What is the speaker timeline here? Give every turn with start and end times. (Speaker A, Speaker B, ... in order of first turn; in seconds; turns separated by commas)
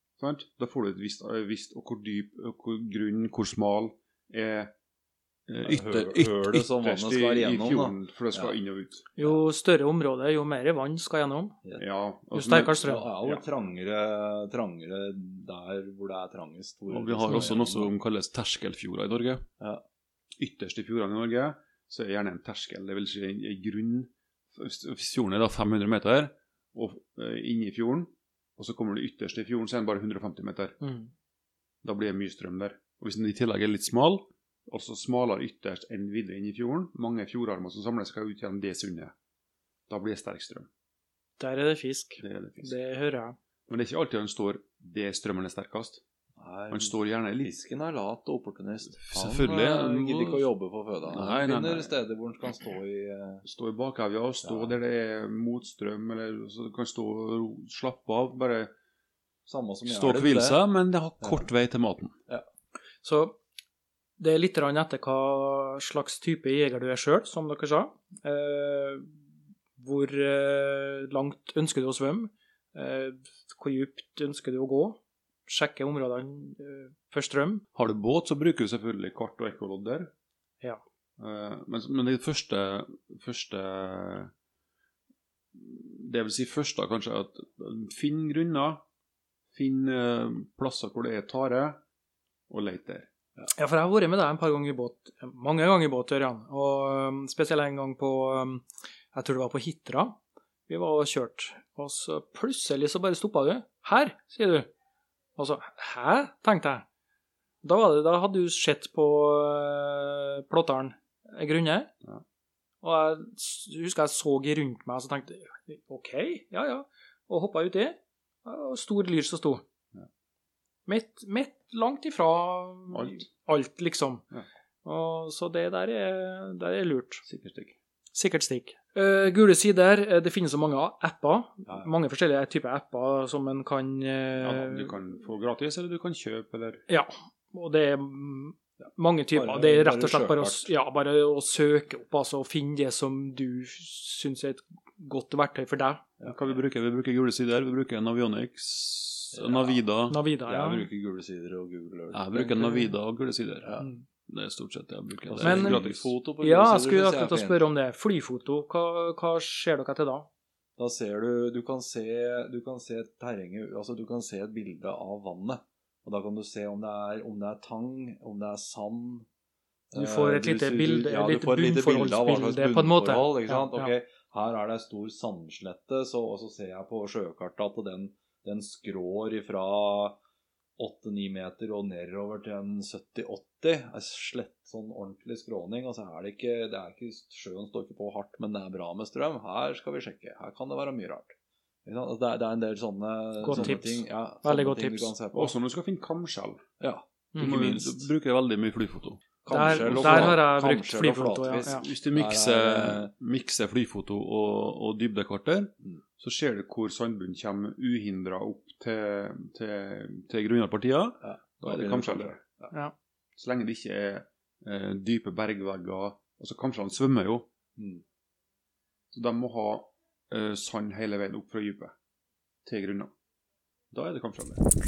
Speaker A: 0.2-4.7, Speaker A: 5.5-9.1, Speaker B: 5.7-8.6, Speaker C: 9.2-11.6, Speaker B: 9.2-9.4, Speaker A: 11.8-13.4, Speaker C: 12.3-13.1, Speaker B: 12.8-17.9, Speaker A: 16.9-19.5, Speaker A: 20.4-30.8, Speaker C: 30.8-31.1, Speaker A: 31.8-39.1, Speaker A: 39.9-40.7, Speaker C: 41.4-43.4, Speaker A: 42.2-42.8, Speaker A: 43.7-46.0, Speaker B: 46.4-53.5, Speaker A: 46.7-47.5, Speaker A: 49.0-50.5, Speaker A: 51.0-52.0, Speaker A: 53.4-58.7, Speaker B: 54.4-54.8, Speaker B: 59.5-60.6, Speaker A: 59.9-62.1, Speaker B: 61.2-61.5, Speaker C: 63.0-63.4, Speaker C: 64.2-69.1, Speaker C: 69.8-77.6, Speaker A: 77.7-80.1, Speaker A: 81.2-84.3, Speaker A: 85.5-88.8, Speaker A: 89.5-91.8, Speaker A: 92.5-93.1, Speaker C: 93.5-104.7, Speaker C: 105.4-106.8, Speaker C: 107.6-111.9, Speaker C: 112.8-119.6, Speaker C: 120.9-124.3, Speaker A: 122.9-123.3, Speaker C: 124.8-127.2, Speaker A: 127.2-127.8, Speaker C: 128.1-135.0, Speaker A: 134.4-136.8, Speaker C: 136.9-146.0, Speaker B: 139.3-140.7, Speaker B: 146.2-146.6, Speaker A: 146.2-150.2, Speaker B: 149.3-149.8, Speaker C: 150.1-150.9, Speaker B: 150.5-152.9, Speaker A: 152.1-153.7, Speaker B: 153.6-153.9, Speaker A: 154.3-156.1, Speaker B: 155.2-157.7, Speaker C: 155.4-155.8, Speaker C: 156.4-160.3, Speaker B: 160.8-169.3, Speaker B: 169.9-180.2, Speaker C: 169.9-173.9, Speaker B: 180.8-191.3, Speaker B: 191.8-195.5, Speaker C: 193.4-195.1, Speaker A: 195.3-196.6, Speaker B: 196.8-198.1, Speaker A: 197.4-199.2, Speaker B: 199.4-203.1, Speaker C: 199.5-201.9, Speaker A: 199.8-200.4, Speaker A: 201.6-212.4, Speaker B: 211.2-212.7, Speaker A: 213.3-217.5, Speaker B: 217.8-218.0, Speaker A: 219.1-221.9, Speaker A: 222.6-223.1, Speaker A: 223.9-224.6